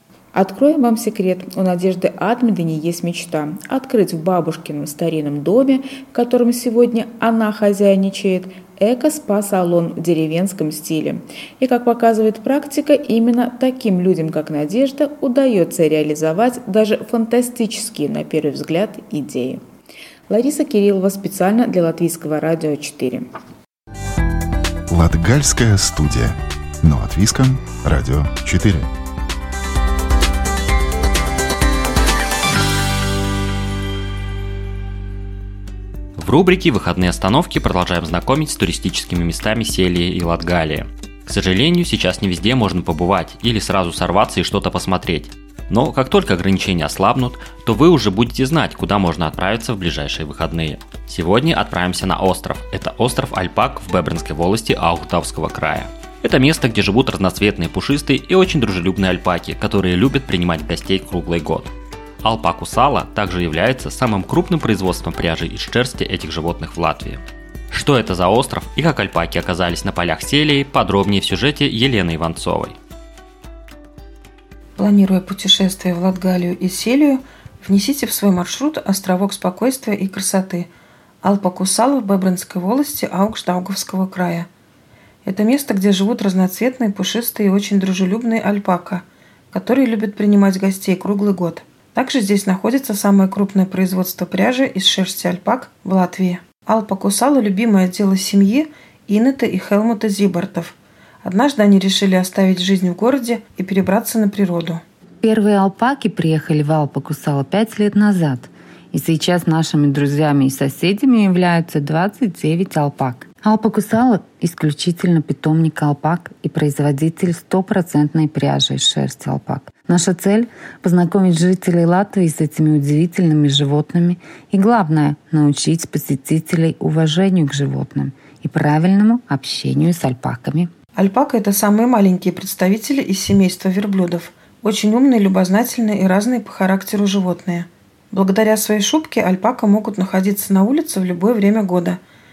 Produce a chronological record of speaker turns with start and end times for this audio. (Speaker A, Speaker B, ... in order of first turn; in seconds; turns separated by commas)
Speaker A: 0.3-19.6, Speaker A: 20.3-23.3, Speaker B: 24.9-28.9, Speaker C: 36.2-61.7, Speaker C: 62.2-72.8, Speaker D: 74.8-80.7, Speaker D: 81.2-84.5, Speaker D: 85.2-104.8, Speaker E: 105.2-130.7, Speaker D: 130.9-142.0